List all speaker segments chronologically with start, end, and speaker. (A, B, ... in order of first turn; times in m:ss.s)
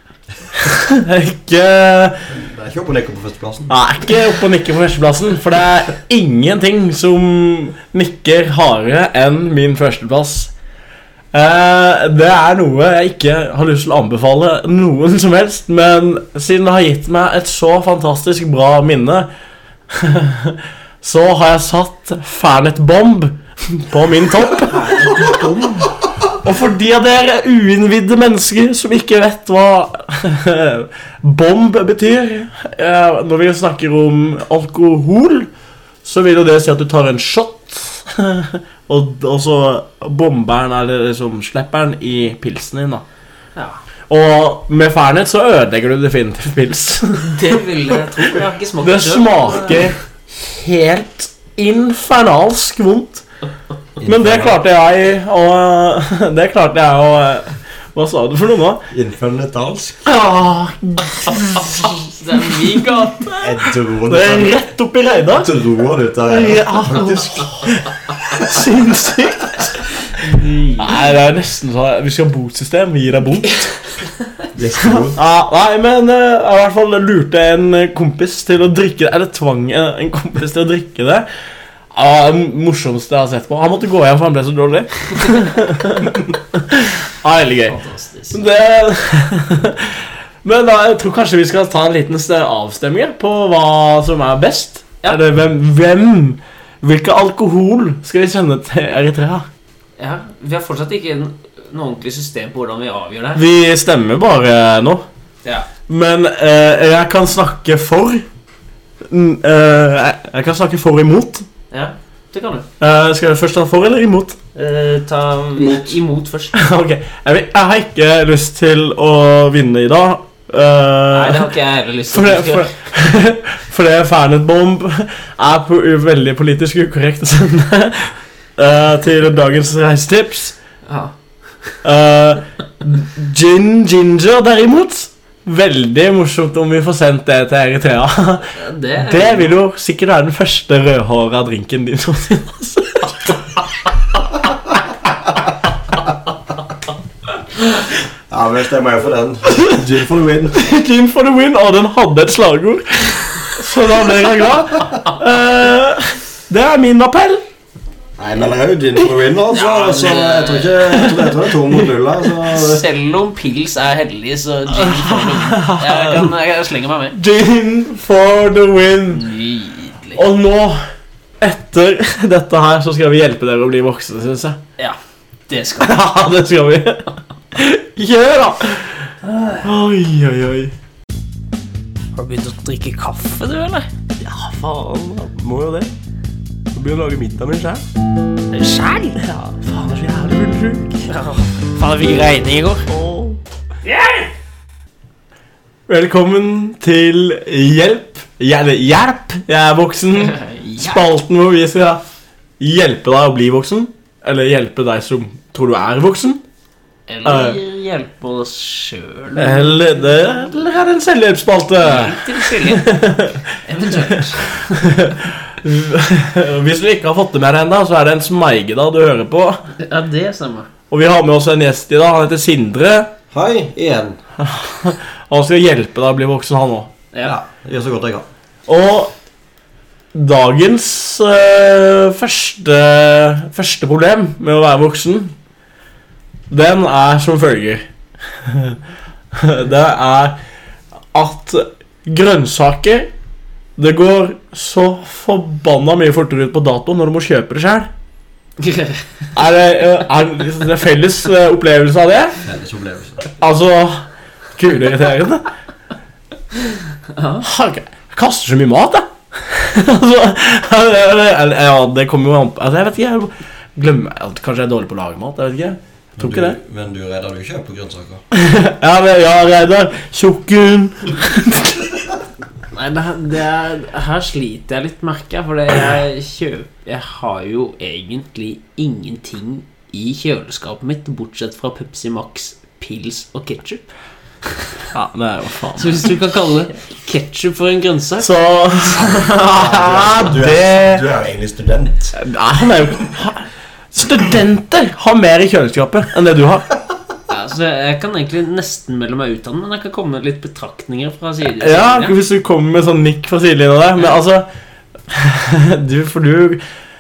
0:00.5-0:02.3 A
0:02.3-0:03.7 B
0:03.7-0:10.5 A
0:11.3-0:19.3 A
0:19.9-0:25.8 A
0:24.6-0:25.9 C
0:26.4-0:35.5 A
0:36.0-0:43.0 A
0:44.1-0:53.2 A
0:47.2-0:49.9 C
0:54.0-0:54.6 B
0:54.0-0:58.8 A
0:58.9-1:00.1 B
1:00.0-1:03.2 A
1:01.5-1:03.5 C
1:03.4-1:04.6 B
1:04.1-1:05.5 A
1:05.3-1:07.7 B
1:06.3-1:09.8 A
1:10.1-1:11.0 C
1:10.8-1:13.7 A
1:14.5-1:15.2 B
1:14.8-1:21.3 A
1:21.9-1:27.8 A
1:27.7-1:28.4 C
1:28.3-1:39.5 A
1:40.0-1:43.4 C
1:43.4-1:45.0 A
1:45.9-1:48.2 A
1:49.1-1:51.5 A
1:51.7-1:52.7 C
1:52.8-1:54.4 A
1:54.6-1:56.6 C
1:56.5-2:01.5 A
2:01.1-2:02.7 C
2:02.1-2:10.6 A
2:10.9-2:11.1 C
2:11.8-2:23.5 A
2:18.5-2:19.6 C
2:28.3-2:30.6 B
2:29.5-2:29.8 A
2:30.5-2:37.4 A
2:38.2-2:42.8 B
2:39.5-2:41.0 C
2:40.9-2:41.9 A
2:42.5-2:47.2 C
2:44.7-2:46.3 A
2:47.2-2:49.3 A
2:49.1-2:50.2 C
2:50.2-2:50.8 A
2:51.4-2:54.6 A
2:55.5-2:56.0 C
2:55.8-3:00.7 A
2:59.2-2:59.6 C
3:02.2-3:03.9 C
3:04.2-3:05.9 A
3:06.7-3:07.8 A
3:08.5-3:09.2 C
3:09.2-3:11.1 A
3:11.0-3:12.9 C
3:12.9-3:13.4 A
3:13.8-3:14.3 C
3:15.9-3:22.0 A
3:20.2-3:21.0 C
3:22.6-3:26.4 A
3:27.1-3:29.9 C
3:27.2-3:27.6 A
3:29.4-3:33.6 A
3:31.8-3:32.9 C
3:33.6-3:34.9 C
3:34.1-3:39.6 A
3:39.8-3:40.7 C
3:40.9-3:43.1 A
3:43.3-3:44.2 B
3:44.4-3:46.9 A
3:47.2-3:48.3 B
3:48.7-3:49.1 A
3:50.1-3:55.3 A
3:56.5-3:57.8 A
3:58.4-3:58.8 A
3:59.3-4:00.4 A
4:01.1-4:03.1 A
4:03.8-4:07.9 A
4:08.6-4:09.0 C
4:09.4-4:12.4 A
4:12.4-4:13.2 B
4:13.4-4:14.0 A
4:14.6-4:15.5 A
4:17.1-4:17.5 C
4:17.4-4:26.6 A
4:26.2-4:28.2 B
4:28.3-4:32.1 A
4:32.7-4:43.9 C
4:44.4-4:44.8 C
4:44.9-4:46.2 A
4:45.8-4:48.3 C
4:48.2-4:51.0 A
4:49.0-4:52.2 B
4:52.2-4:56.7 A
4:57.3-5:02.2 C
5:01.6-5:04.5 A
5:05.1-5:06.6 A